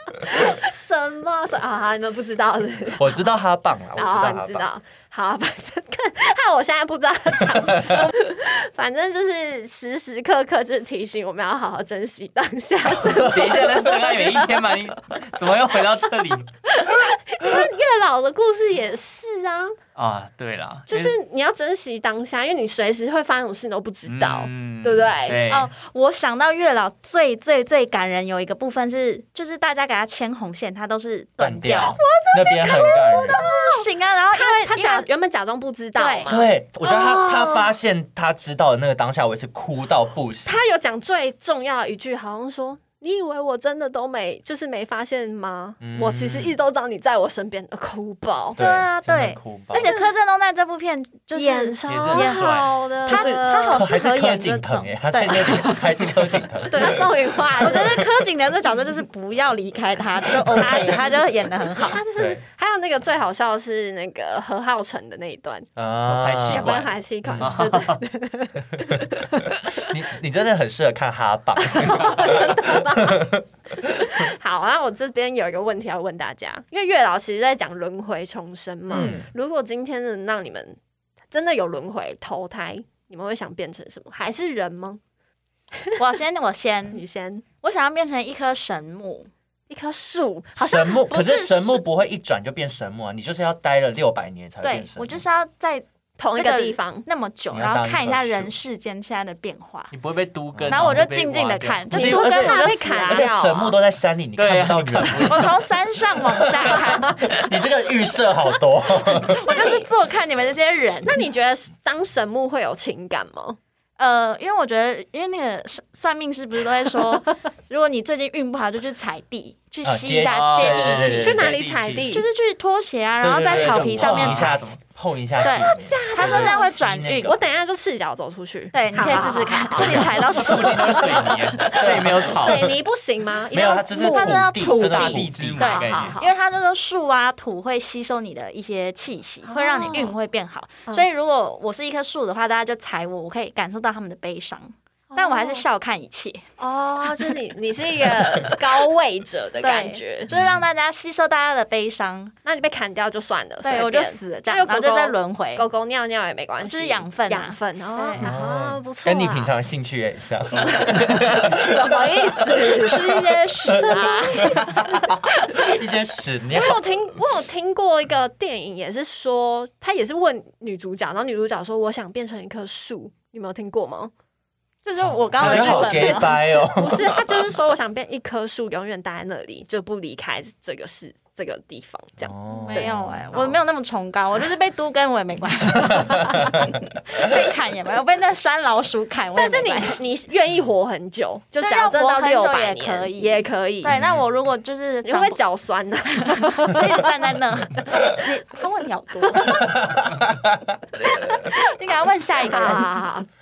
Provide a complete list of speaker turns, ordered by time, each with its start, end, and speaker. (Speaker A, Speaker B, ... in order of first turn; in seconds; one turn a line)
Speaker A: 0.2-3.2
Speaker B: 3.0-4.7
Speaker A: 3.9-14.8
Speaker C: 13.2-16.5
Speaker A: 16.6-19.8
Speaker C: 19.9-21.1
Speaker A: 20.9-25.4
Speaker C: 24.1-25.7
Speaker D: 25.5-35.1
Speaker B: 31.4-33.4
Speaker A: 32.2-37.7
Speaker D: 36.0-36.3
Speaker B: 36.3-40.5
Speaker A: 40.4-48.6
Speaker B: 45.8-46.5
Speaker B: 48.5-49.9
Speaker D: 48.6-55.9
Speaker A: 49.7-50.1
Speaker A: 51.3-53.9
Speaker C: 51.9-52.7
Speaker B: 53.0-57.1
Speaker A: 56.7-58.1
Speaker D: 57.6-62.0
Speaker A: 60.5-61.1
Speaker A: 61.9-65.7
Speaker B: 65.8-67.6
Speaker C: 66.0-68.0
Speaker A: 66.5-69.9
Speaker B: 69.7-73.4
Speaker A: 71.6-80.8
Speaker B: 78.9-79.2
Speaker A: 81.3-85.0
Speaker D: 86.0-87.0
Speaker A: 86.9-87.4
Speaker D: 87.6-89.3
Speaker A: 89.7-91.8
Speaker B: 90.6-95.2
Speaker D: 94.6-99.9
Speaker A: 96.2-97.0
Speaker B: 97.5-98.5
Speaker C: 99.9-101.9
Speaker B: 100.5-101.0
Speaker D: 100.7-103.3
Speaker A: 101.9-103.8
Speaker B: 101.9-105.5
Speaker C: 104.3-105.5
Speaker D: 105.2-107.4
Speaker B: 106.3-109.5
Speaker D: 109.0-111.2
Speaker A: 109.3-109.9
Speaker A: 111.0-113.6
Speaker D: 114.0-121.4
Speaker B: 119.8-121.4
Speaker C: 120.2-122.1
Speaker A: 120.9-122.2
Speaker D: 122.1-124.6
Speaker B: 123.2-127.3
Speaker C: 123.4-124.8
Speaker A: 125.4-130.2
Speaker D: 125.4-127.3
Speaker D: 128.7-131.2
Speaker B: 129.8-132.8
Speaker C: 129.8-132.7
Speaker A: 131.7-136.3
Speaker B: 133.5-135.8
Speaker D: 133.9-135.1
Speaker C: 134.9-136.2
Speaker D: 135.6-146.4
Speaker A: 139.5-140.1
Speaker A: 145.1-145.6
Speaker A: 146.6-150.3
Speaker D: 149.6-152.3
Speaker B: 150.3-150.7
Speaker A: 152.4-159.5
Speaker D: 153.6-155.7
Speaker D: 156.7-158.3
Speaker B: 158.2-166.9
Speaker C: 160.6-161.1
Speaker A: 160.6-165.8
Speaker D: 162.6-165.1
Speaker A: 166.5-174.1
Speaker D: 174.8-176.6
Speaker B: 175.3-177.3
Speaker A: 175.4-183.6
Speaker B: 182.2-183.4
Speaker D: 182.6-190.0
Speaker B: 186.1-186.7
Speaker A: 189.3-193.9
Speaker D: 191.6-195.4
Speaker B: 193.8-194.2
Speaker A: 195.0-197.3
Speaker D: 196.1-199.8
Speaker A: 199.3-199.6
Speaker B: 199.6-201.1
Speaker D: 201.0-203.1
Speaker A: 202.4-203.3